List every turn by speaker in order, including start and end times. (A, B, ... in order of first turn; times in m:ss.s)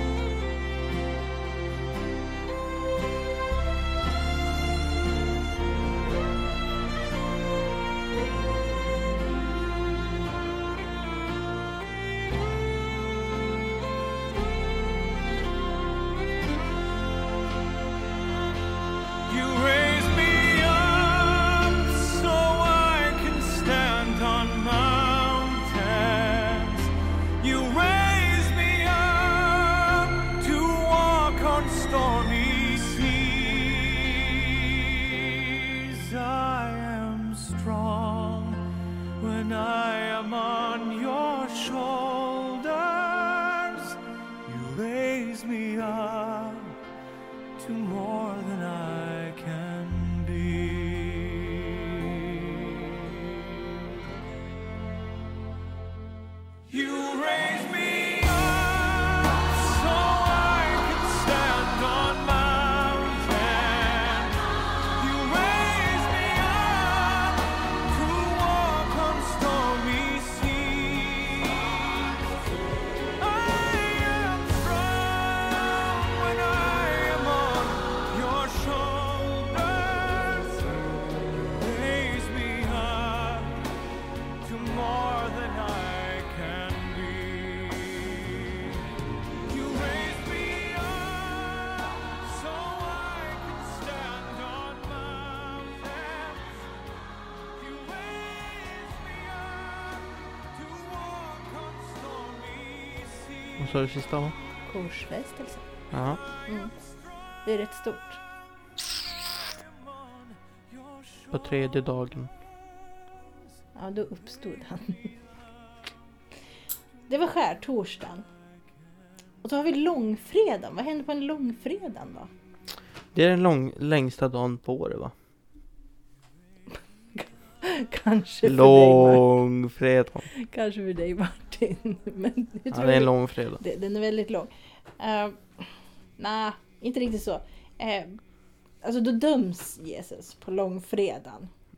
0:19.2-0:38.6 A
0:39.2-0:46.8 A
0:47.6-0:53.1 A
0:56.7-1:12.2 A
1:13.2-1:23.7 A
1:24.4-1:28.9 A
1:29.4-1:36.7 A
1:37.5-1:43.7 A
1:43.6-1:44.4 B
1:44.6-1:45.7 C
1:45.9-1:46.2 B
1:46.0-1:46.9 A
1:46.5-1:46.7 C
1:47.4-1:48.2 C
1:49.3-1:51.7 A
1:51.3-1:52.3 B
1:53.8-1:55.1 C
1:57.1-1:58.2 C
1:59.4-2:02.3 C
2:03.1-2:05.1 B
2:07.2-2:09.3 C
2:08.4-2:10.3 B
2:10.3-2:18.2 C
2:12.7-2:13.6 B
2:18.8-2:21.5 C